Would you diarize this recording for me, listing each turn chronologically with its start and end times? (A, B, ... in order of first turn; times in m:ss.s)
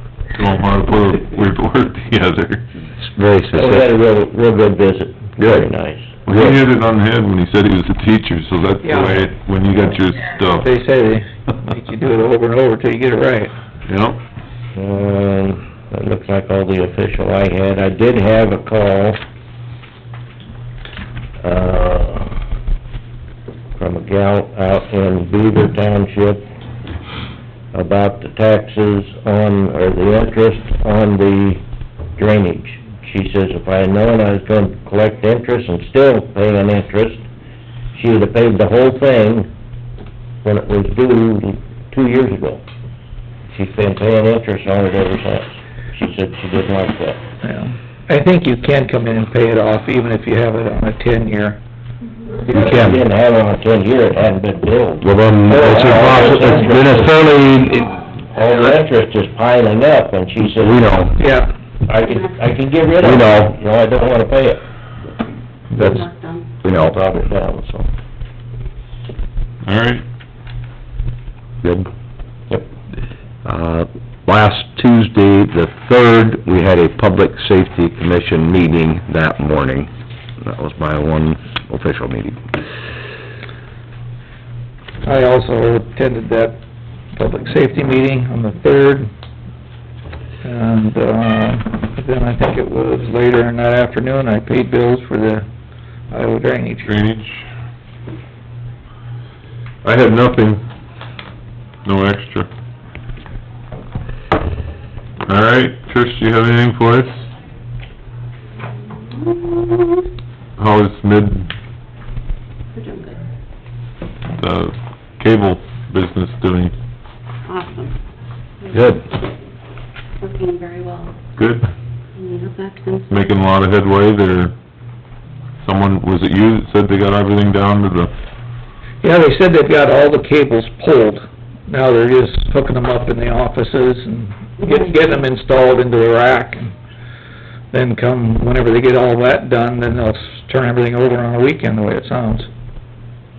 0:00.3-0:02.6 A
0:03.0-0:03.9 B
0:03.5-0:06.1 C
0:05.4-0:05.7 B
0:06.3-0:10.7 A
0:06.3-0:06.6 B
0:08.8-0:09.2 D
0:10.6-0:13.5 D
0:13.9-0:14.2 A
0:14.8-0:19.2 C
0:21.4-0:22.4 C
0:23.8-0:26.5 C
0:27.7-0:31.6 C
0:32.2-0:37.2 C
0:37.9-0:39.5 C
0:40.4-0:42.6 C
0:43.5-0:47.2 C
0:47.4-0:51.6 D
0:52.4-0:57.2 C
0:52.5-0:53.0 B
0:55.0-0:58.0 B
0:58.3-1:00.8 C
1:00.6-1:01.2 B
1:01.2-1:01.5 D
1:01.8-1:04.6 C
1:03.0-1:03.6 B
1:05.7-1:06.5 E
1:05.8-1:06.0 B
1:05.8-1:06.0 C
1:06.6-1:06.9 B
1:06.6-1:07.9 C
1:09.6-1:10.0 A
1:11.6-1:11.9 B
1:13.4-1:19.9 B
1:20.4-1:22.4 B
1:25.0-1:26.6 D
1:27.1-1:29.1 D
1:30.4-1:35.5 D
1:36.1-1:36.9 D
1:36.8-1:37.5 A
1:39.8-1:40.6 A
1:41.8-1:42.5 A
1:45.3-1:47.3 A
1:48.9-1:50.1 E
1:50.6-1:51.5 A
1:52.7-1:53.2 E
1:54.4-1:56.7 A
1:57.5-1:58.0 E
1:58.6-1:59.0 E
2:00.2-2:01.2 E
2:01.4-2:01.7 A
2:02.2-2:03.1 E
2:03.1-2:04.6 A
2:05.6-2:08.1 A
2:09.0-2:16.7 D
2:14.6-2:15.1 E
2:17.7-2:22.5 D